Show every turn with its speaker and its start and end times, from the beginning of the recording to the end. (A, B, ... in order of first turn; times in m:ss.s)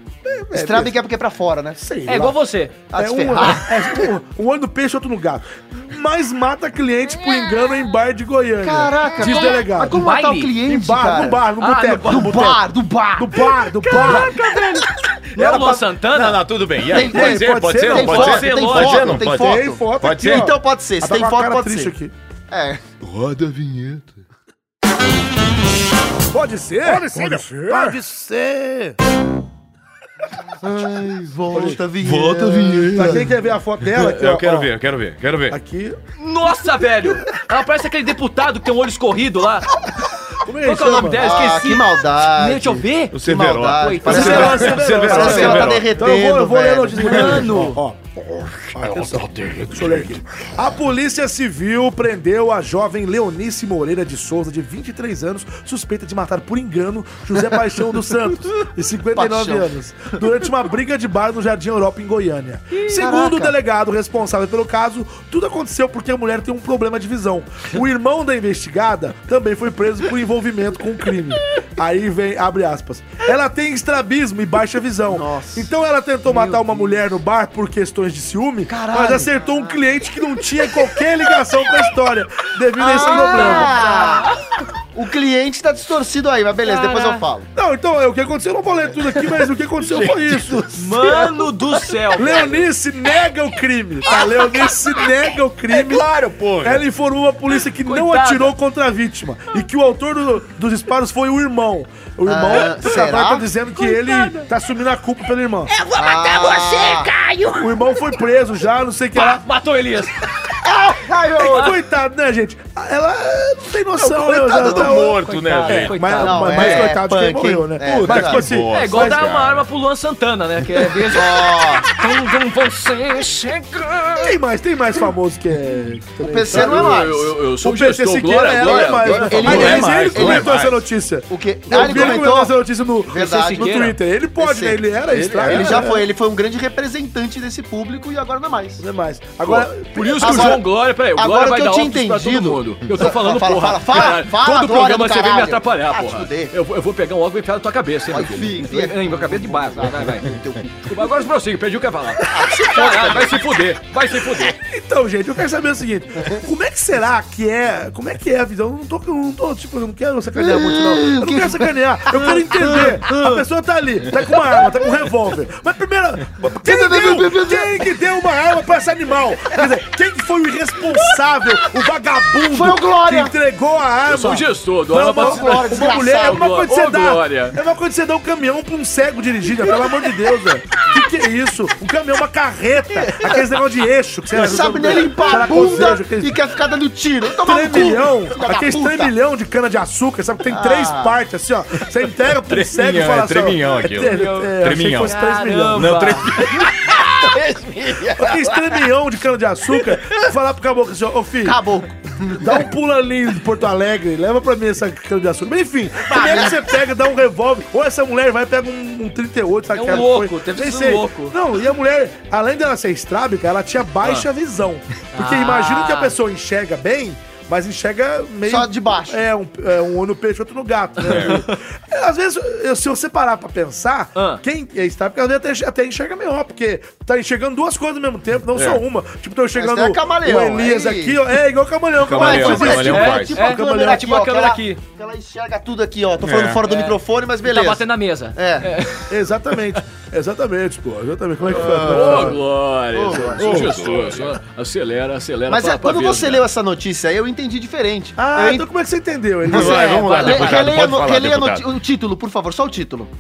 0:00.3-0:01.0 A
0:00.5-0:01.8 B
0:01.8-0:02.4 A
0:02.1-0:02.8 C
0:02.9-0:04.1 B
0:02.9-0:10.0 A
0:08.6-0:14.2 B
0:09.8-0:10.5 C
0:10.6-0:14.4 A
0:11.6-0:12.4 C
0:13.9-0:16.4 C
0:15.4-0:20.5 D
0:16.9-0:21.9 B
0:16.9-0:18.4 A
0:17.9-0:19.2 C
0:19.2-0:22.1 A
0:22.5-0:22.8 B
0:23.0-0:24.1 D
0:26.3-0:29.0 A
0:26.9-0:28.0 D
0:30.6-0:33.3 B
0:31.5-0:31.8 A
0:31.6-0:35.6 D
0:32.9-0:34.7 A
0:35.5-0:36.0 A
0:36.2-0:39.7 C
0:40.4-0:41.3 A
0:40.6-0:44.8 C
0:41.2-0:47.5 B
0:43.1-0:46.1 D
0:44.0-0:48.0 A
0:47.0-0:47.8 C
0:48.2-0:50.5 D
0:48.7-1:23.8 A
0:59.1-0:59.7 B
1:02.9-1:03.5 B
1:15.1-1:15.7 B
1:18.7-1:19.8 B
1:22.8-1:24.4 B
1:23.0-1:24.4 C
1:24.9-1:27.5 B
1:26.6-1:27.2 C
1:27.5-1:31.2 A
1:29.8-1:31.5 D
1:30.8-1:32.7 C
1:32.1-1:45.7 A
1:35.7-1:36.8 D
1:37.8-1:38.5 C
1:42.2-1:43.5 B
1:43.9-1:44.4 E
1:45.7-1:48.1 E
1:45.9-1:47.1 B
1:47.5-1:49.4 A
1:49.1-1:50.3 C
1:50.6-1:51.7 B
1:51.4-1:59.2 A
1:51.4-1:51.8 C
1:54.0-1:56.8 D
1:54.5-1:56.9 C
1:56.2-1:58.5 B
1:57.8-1:59.7 D
1:58.7-2:04.4 C
2:01.1-2:01.9 B
2:04.2-2:07.1 A
2:06.2-2:07.4 B
2:06.5-2:09.9 C
2:07.6-2:16.1 A
2:08.6-2:10.6 B
2:09.3-2:10.8 D
2:11.3-2:12.6 B
2:11.8-2:12.2 C
2:13.1-2:13.8 B
2:13.1-2:14.0 C
2:14.4-2:14.8 B
2:15.1-2:15.9 D
2:15.4-2:18.8 B
2:18.8-2:20.6 A
2:19.9-2:34.6 C
2:20.2-2:26.5 B
2:28.1-2:30.8 B
2:32.2-2:33.5 B
2:34.4-3:06.4 A
2:40.4-2:43.0 B
2:43.0-2:43.4 C
2:46.6-2:47.8 B
2:52.4-2:53.3 B
2:54.1-2:57.6 C
2:55.0-2:56.5 B
3:03.0-3:03.4 B
3:04.3-3:09.1 B
3:07.4-3:16.2 A
3:10.5-3:11.2 B
3:12.4-3:15.2 D
3:14.0-3:16.8 C
3:15.7-3:18.8 D
3:18.2-3:21.6 A
3:19.9-3:20.2 D
3:21.4-3:22.6 B
3:22.4-3:54.0 A
3:26.1-3:26.6 B
3:29.7-3:31.3 C
3:35.1-3:36.1 C
3:38.4-3:39.2 B
3:41.0-3:41.4 D
3:41.0-3:41.6 C
3:44.1-3:44.4 C
3:48.5-3:48.8 D
3:49.5-3:51.2 B
3:52.0-3:53.4 D
3:52.1-3:58.8 B
3:52.8-3:54.8 C
3:56.2-3:56.6 D
3:56.6-3:59.8 C
3:59.1-4:02.4 A
4:01.5-4:03.8 B
4:01.6-4:06.4 C
4:03.3-4:04.4 D
4:05.5-4:08.7 B
4:08.2-4:10.7 A
4:09.5-4:13.1 B
4:09.5-4:11.6 D
4:10.1-4:10.5 C